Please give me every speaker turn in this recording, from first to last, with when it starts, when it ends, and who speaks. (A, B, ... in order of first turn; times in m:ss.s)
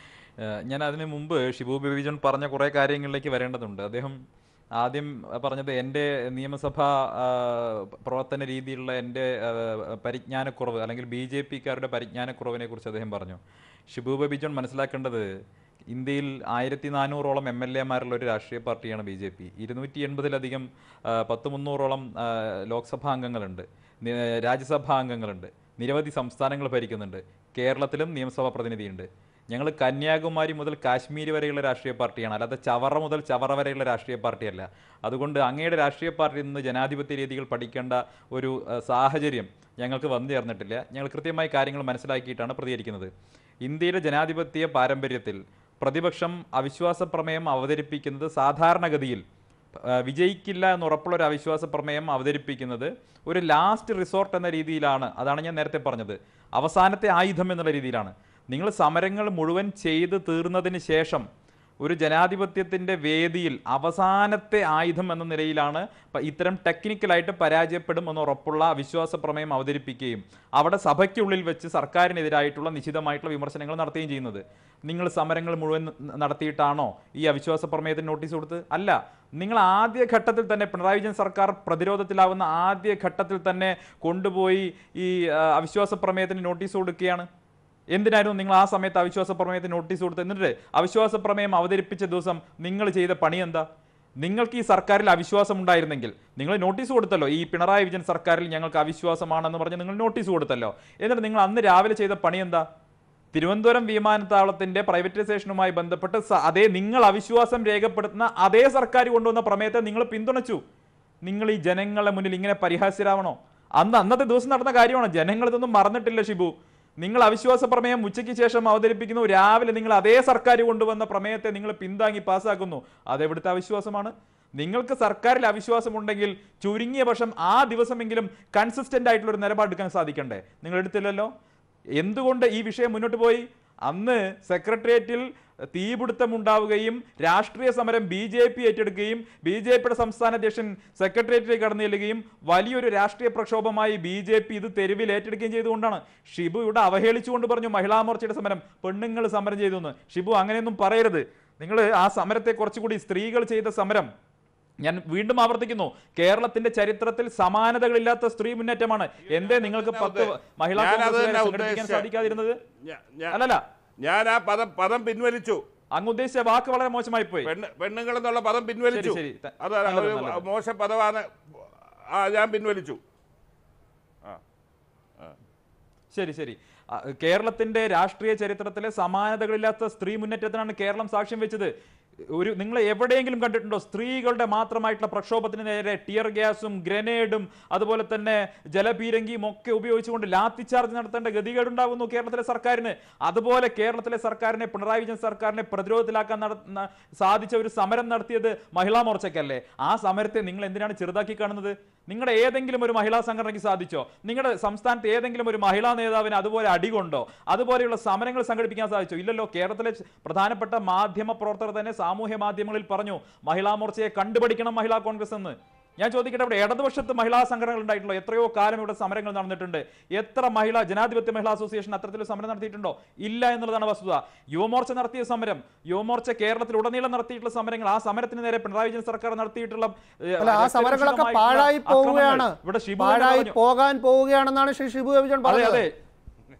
0:00.4-0:04.2 A
0:04.8-0:15.3 A
0:15.9-0:43.1 A
0:43.6-0:49.2 A
0:49.8-1:01.2 A
1:01.8-1:27.3 A
1:27.9-1:33.6 A
1:34.2-1:42.6 A
1:43.3-1:50.6 A
1:51.2-2:11.3 A
2:12.0-2:34.1 A
2:34.8-2:42.6 A
2:39.5-2:42.0 B
2:42.8-2:43.3 B
2:43.3-2:43.6 A
2:44.0-2:45.5 B
2:45.9-2:47.5 A
2:47.4-2:51.2 B
2:48.9-2:50.4 A
2:52.1-2:53.0 B
2:56.1-3:01.7 A
3:02.3-3:53.5 A
3:50.4-3:55.8 C
3:55.4-3:55.9 A